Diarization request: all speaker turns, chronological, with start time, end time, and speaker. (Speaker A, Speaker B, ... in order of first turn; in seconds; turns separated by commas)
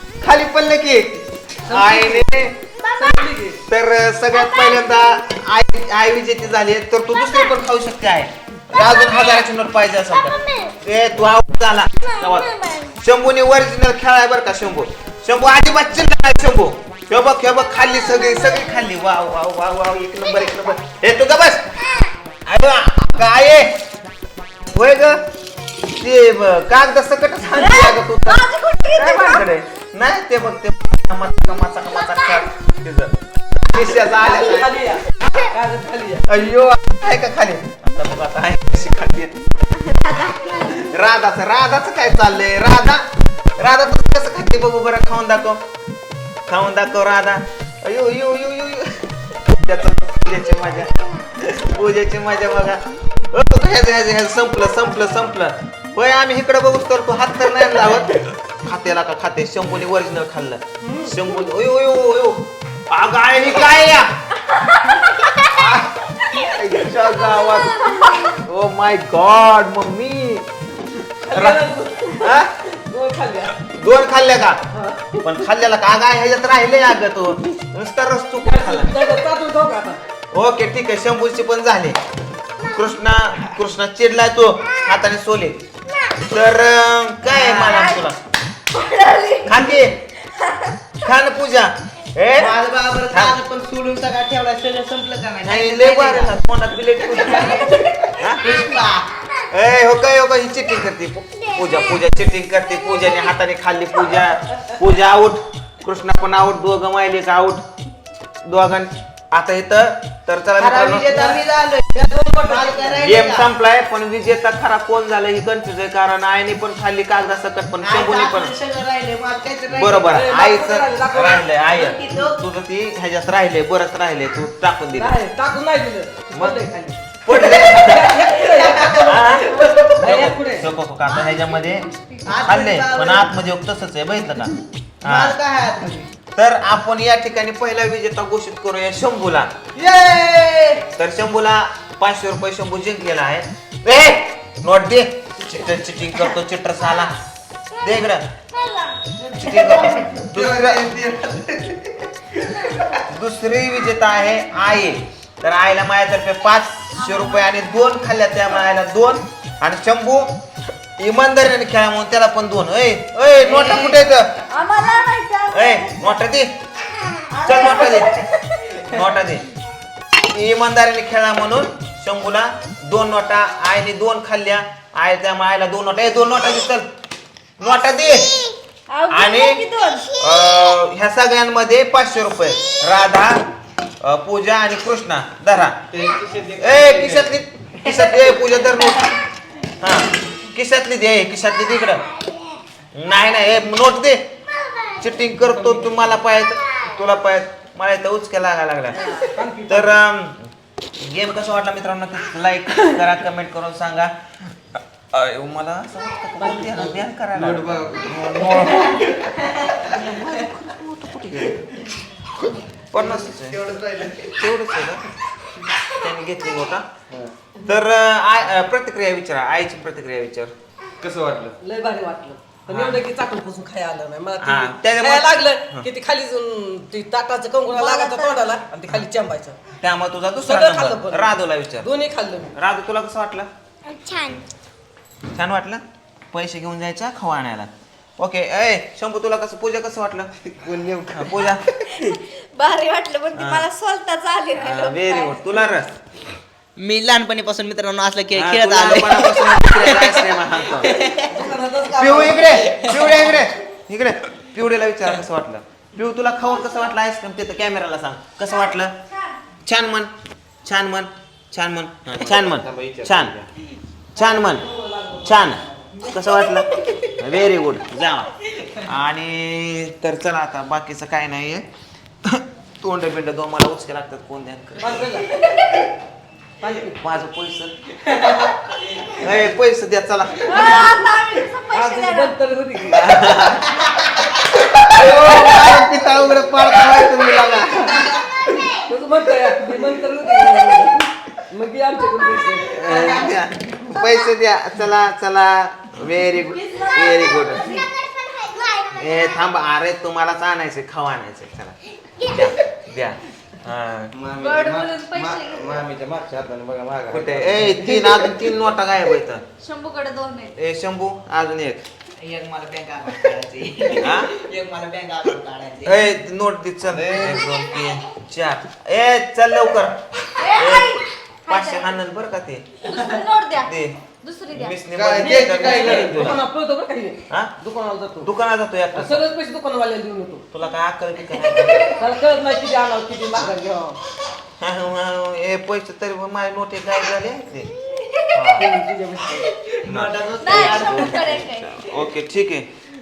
Speaker A: 0.2-2.6, Speaker B: 1.7-2.3, Speaker C: 2.8-3.1, Speaker B: 2.9-3.6, Speaker A: 3.7-21.6, Speaker C: 10.4-10.7, Speaker C: 12.1-12.9, Speaker C: 18.1-18.6, Speaker A: 22.5-23.8, Speaker A: 24.7-25.2, Speaker A: 25.9-35.3, Speaker C: 27.6-29.4, Speaker B: 34.0-36.3, Speaker A: 36.3-39.5, Speaker C: 39.8-40.8, Speaker A: 40.1-43.1, Speaker A: 43.6-45.6, Speaker A: 46.5-64.2, Speaker B: 60.8-61.1, Speaker C: 64.5-65.5, Speaker A: 65.3-70.5, Speaker C: 67.5-68.4, Speaker B: 71.2-73.7, Speaker A: 71.3-72.5, Speaker A: 73.7-74.6, Speaker B: 74.7-75.2, Speaker A: 75.2-79.0, Speaker B: 78.4-80.0, Speaker A: 80.3-82.0, Speaker A: 82.6-85.6, Speaker A: 86.2-88.2, Speaker D: 87.2-87.9, Speaker C: 87.8-88.0, Speaker C: 88.7-89.8, Speaker A: 89.4-90.0, Speaker C: 90.3-90.7, Speaker A: 91.0-92.6, Speaker D: 92.4-96.4, Speaker A: 93.1-93.4, Speaker A: 95.4-98.5, Speaker D: 97.0-99.1, Speaker A: 99.5-107.6, Speaker A: 108.4-111.4, Speaker D: 110.6-113.5, Speaker B: 112.1-113.2, Speaker A: 113.0-118.5, Speaker D: 117.8-120.2, Speaker A: 119.7-125.2, Speaker B: 120.1-121.5, Speaker D: 121.7-122.4, Speaker B: 125.0-130.7, Speaker A: 126.3-126.6, Speaker A: 127.2-128.2, Speaker D: 127.3-129.3, Speaker A: 129.0-131.9, Speaker C: 131.1-132.4, Speaker D: 132.2-133.3, Speaker A: 132.4-135.4, Speaker D: 135.0-136.1, Speaker A: 136.4-139.5, Speaker D: 139.8-140.9, Speaker A: 140.9-147.2, Speaker A: 147.8-148.3, Speaker C: 148.5-149.1, Speaker A: 149.3-150.9, Speaker D: 149.9-152.9, Speaker A: 153.1-160.3, Speaker A: 161.0-164.3, Speaker C: 164.5-166.1, Speaker A: 165.5-166.6, Speaker C: 167.2-168.3, Speaker A: 167.4-168.2, Speaker A: 168.8-169.5, Speaker A: 170.3-176.9, Speaker A: 177.6-178.5, Speaker C: 178.9-180.2, Speaker A: 179.1-179.6, Speaker A: 180.2-183.4, Speaker A: 184.0-185.8, Speaker E: 185.9-187.3, Speaker A: 186.6-189.1, Speaker C: 187.9-189.1, Speaker A: 189.8-192.0, Speaker A: 192.9-194.3, Speaker C: 194.5-195.0, Speaker A: 194.9-204.2, Speaker B: 199.0-200.0, Speaker A: 205.1-211.8, Speaker B: 206.4-206.9, Speaker E: 207.4-207.9, Speaker D: 207.6-208.2, Speaker A: 212.9-215.0, Speaker D: 213.0-214.3, Speaker A: 215.9-216.8, Speaker A: 217.6-220.5, Speaker E: 221.0-221.6, Speaker B: 221.6-229.6, Speaker A: 222.7-223.0, Speaker A: 224.4-225.9, Speaker C: 227.7-228.6, Speaker A: 229.8-231.9, Speaker B: 230.4-232.5, Speaker A: 232.5-233.5, Speaker C: 233.9-234.4, Speaker A: 235.3-240.3, Speaker D: 240.6-242.0, Speaker A: 241.1-241.7, Speaker C: 241.9-245.4, Speaker A: 243.3-243.7, Speaker A: 244.5-246.0, Speaker D: 246.8-251.4, Speaker A: 248.3-251.0, Speaker B: 251.2-252.8, Speaker A: 251.9-259.0, Speaker D: 252.8-253.1, Speaker A: 259.7-260.1, Speaker A: 260.6-263.4, Speaker E: 262.2-263.4, Speaker A: 264.1-264.7, Speaker B: 264.2-265.6, Speaker A: 265.2-271.7, Speaker A: 272.3-275.1, Speaker B: 274.8-275.5, Speaker B: 276.6-277.0, Speaker A: 277.0-277.8, Speaker A: 279.1-280.9, Speaker C: 280.4-282.3, Speaker B: 281.7-283.4, Speaker A: 282.9-283.8, Speaker A: 284.5-288.2, Speaker D: 285.1-285.9, Speaker B: 288.6-293.4, Speaker A: 292.7-297.8, Speaker C: 296.4-298.9, Speaker A: 298.9-304.1, Speaker E: 304.1-308.0, Speaker C: 304.4-305.8, Speaker D: 304.5-304.9, Speaker A: 307.1-309.4, Speaker C: 309.6-310.5, Speaker A: 310.6-311.8, Speaker D: 312.2-316.0, Speaker A: 314.0-314.4, Speaker A: 315.8-322.7, Speaker E: 316.9-317.4, Speaker C: 320.4-322.0, Speaker C: 322.8-324.8, Speaker A: 323.6-324.0, Speaker A: 324.5-326.4, Speaker E: 324.9-326.2, Speaker B: 325.2-328.3, Speaker A: 328.2-329.2, Speaker B: 328.9-330.5, Speaker A: 330.5-332.0, Speaker B: 331.8-334.0, Speaker A: 334.6-337.7, Speaker C: 337.9-338.3, Speaker A: 338.3-338.7, Speaker B: 338.6-339.7, Speaker D: 339.8-341.3, Speaker A: 339.9-342.7, Speaker C: 340.4-342.0